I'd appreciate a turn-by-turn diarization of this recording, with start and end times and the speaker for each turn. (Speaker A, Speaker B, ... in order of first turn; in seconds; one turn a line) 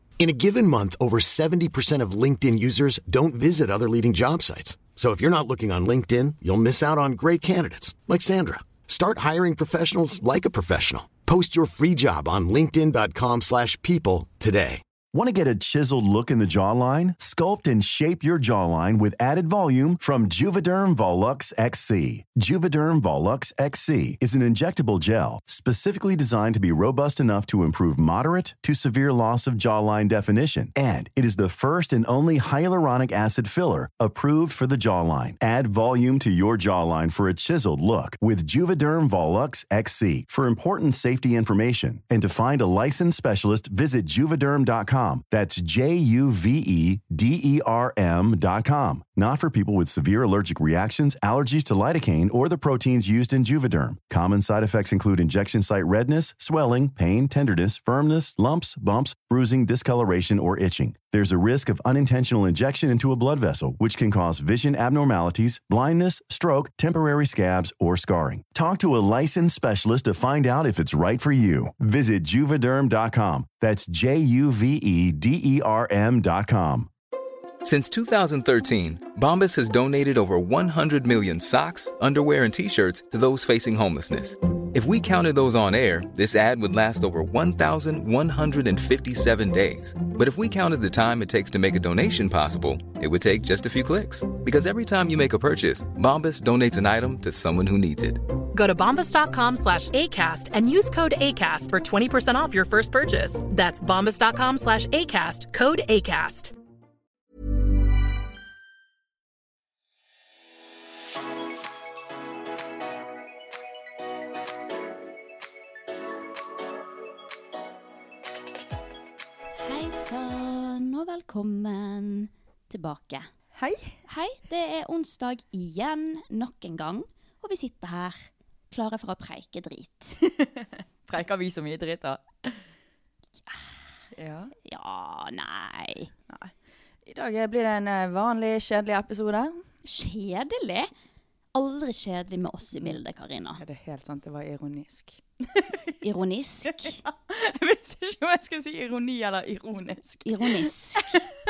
Speaker A: 0.2-14.8
Speaker B: 15.1-76.9
Speaker C: 77.6-98.2
Speaker D: 98.5-106.5
Speaker E: 119.6-123.3
Speaker F: 123.5-123.9
Speaker E: 124.0-130.2
Speaker F: 130.4-132.6
Speaker E: 133.4-133.7
Speaker F: 134.1-134.5
Speaker E: 134.6-136.1
Speaker F: 137.1-139.6
Speaker E: 139.8-140.9
Speaker E: 141.5-143.6
Speaker F: 143.6-145.9
Speaker E: 146.0-147.0
Speaker F: 146.7-151.2
Speaker E: 150.2-151.2